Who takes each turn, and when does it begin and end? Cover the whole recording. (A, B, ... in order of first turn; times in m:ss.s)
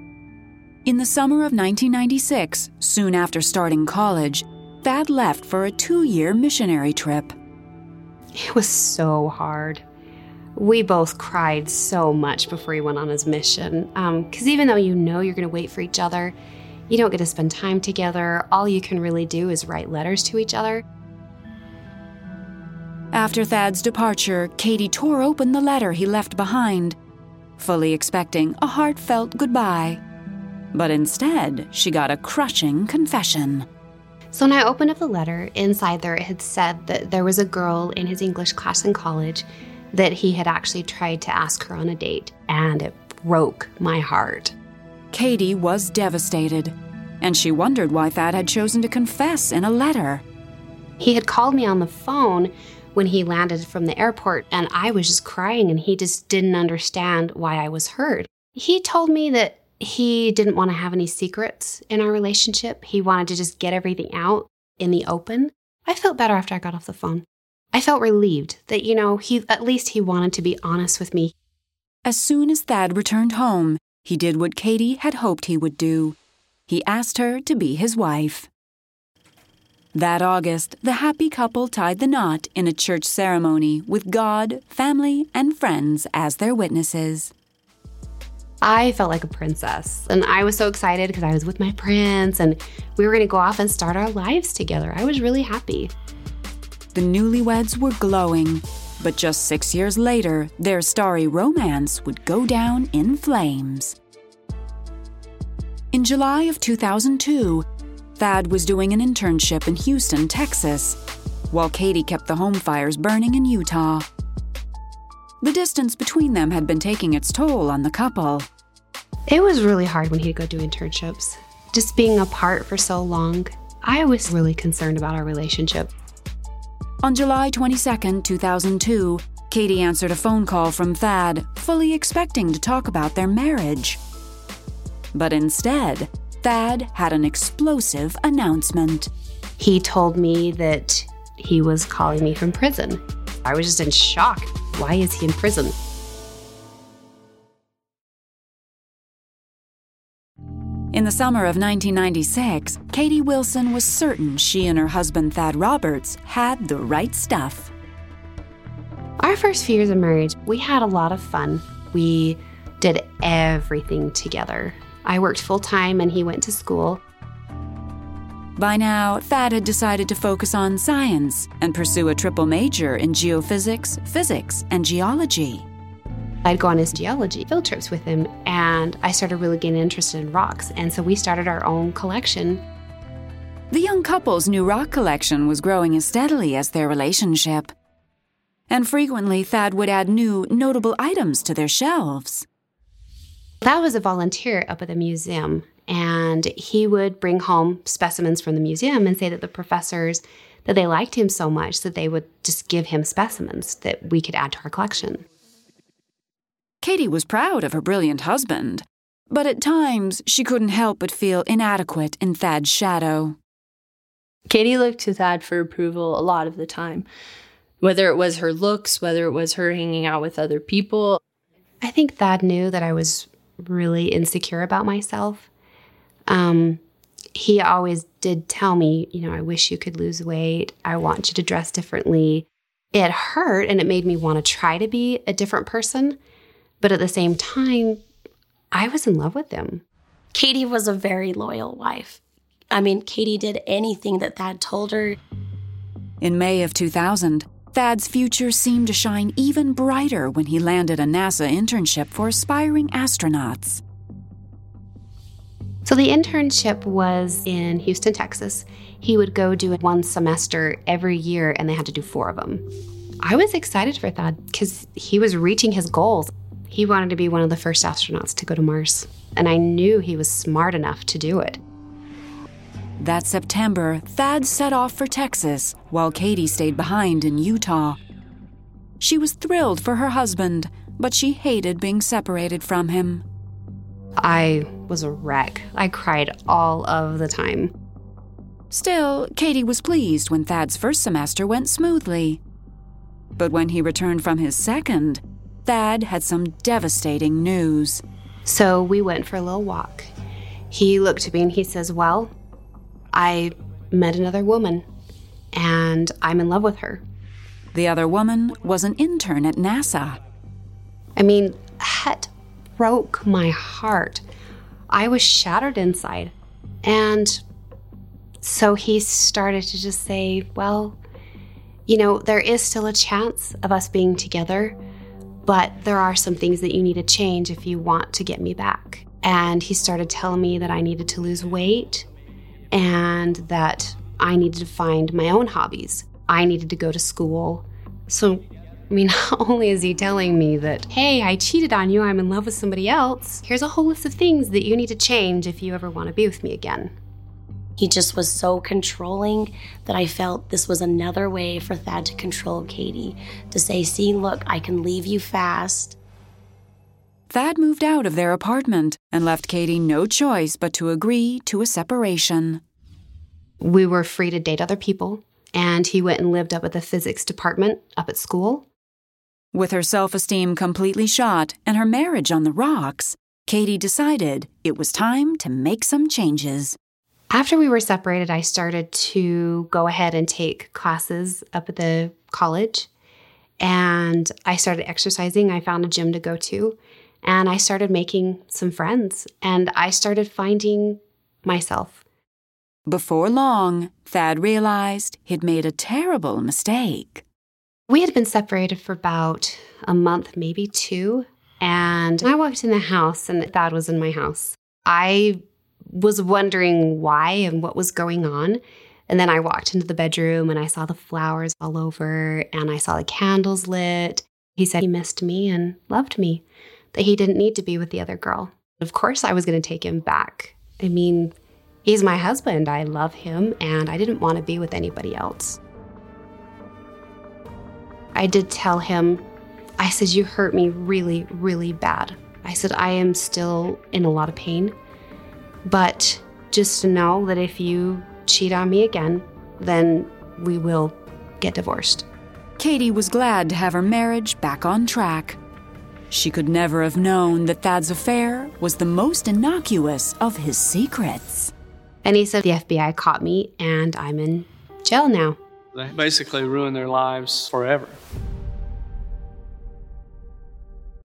0:00.8-0:07.3 A
0:08.3-0:09.8 B
0:10.6-0:16.3 B
0:16.9-0:20.8 B
0:23.1-0:27.0 A
0:27.6-0:30.0 A
0:30.7-0:33.6 A
0:34.3-0:44.5 B
0:45.1-0:50.2 A
0:51.0-1:11.3 B
1:12.0-1:16.2 A
1:16.7-1:18.5 A
1:19.9-1:27.3 A
1:28.6-1:35.9 B
1:36.9-1:44.0 A
1:45.9-1:47.6 A
1:48.2-1:51.0 A
1:51.5-1:54.0 A
1:55.4-1:58.4 A
1:59.3-2:05.9 B
2:07.0-2:14.0 A
2:15.1-2:19.1 A
2:19.6-2:25.7 B
2:30.9-2:37.7 A
2:39.2-2:47.0 B
2:48.6-2:55.6 A
2:56.4-3:02.6 B
3:03.7-3:07.7 A
3:08.7-3:12.4 A
3:13.6-3:25.2 B
3:26.8-3:33.4 A
3:34.5-3:37.0 C
3:37.8-3:41.2 C
3:41.8-3:45.5 B
3:46.3-3:46.8 B
3:47.3-3:56.2 B
3:56.8-3:58.0 B
3:58.7-3:59.8 B
4:00.3-4:02.2 D
4:02.7-4:05.2 D
4:06.2-4:13.8 A
4:15.8-4:22.6 B
4:23.2-4:31.6 B
4:33.0-4:38.0 A
4:39.0-4:43.2 A
4:44.2-4:47.7 B
4:48.7-4:52.4 A
4:53.4-4:58.0 A
4:58.4-5:00.1 B
5:00.7-5:02.3 B
5:03.1-5:04.8 B
5:05.5-5:07.0 B
5:07.7-5:10.2 A
5:11.2-5:14.2 B
5:14.9-5:16.3 B
5:16.8-5:17.4 B
5:18.4-5:21.0 B
5:21.9-5:24.8 B
5:25.4-5:32.1 B
5:32.7-5:46.9 B
5:47.8-5:56.0 D
5:57.3-6:02.6 A
6:03.6-6:08.6 B
6:09.5-6:16.8 A
6:17.3-6:22.9 B
6:23.6-6:32.0 B
6:32.9-6:37.2 A
6:37.9-7:01.3 B
7:01.8-7:05.6 B
7:08.1-7:09.2 B
7:09.8-7:14.7 B
7:15.6-7:22.0 B
7:22.6-7:25.4 A
7:26.1-7:31.5 A
7:32.0-7:35.4 B
7:35.7-7:38.0 E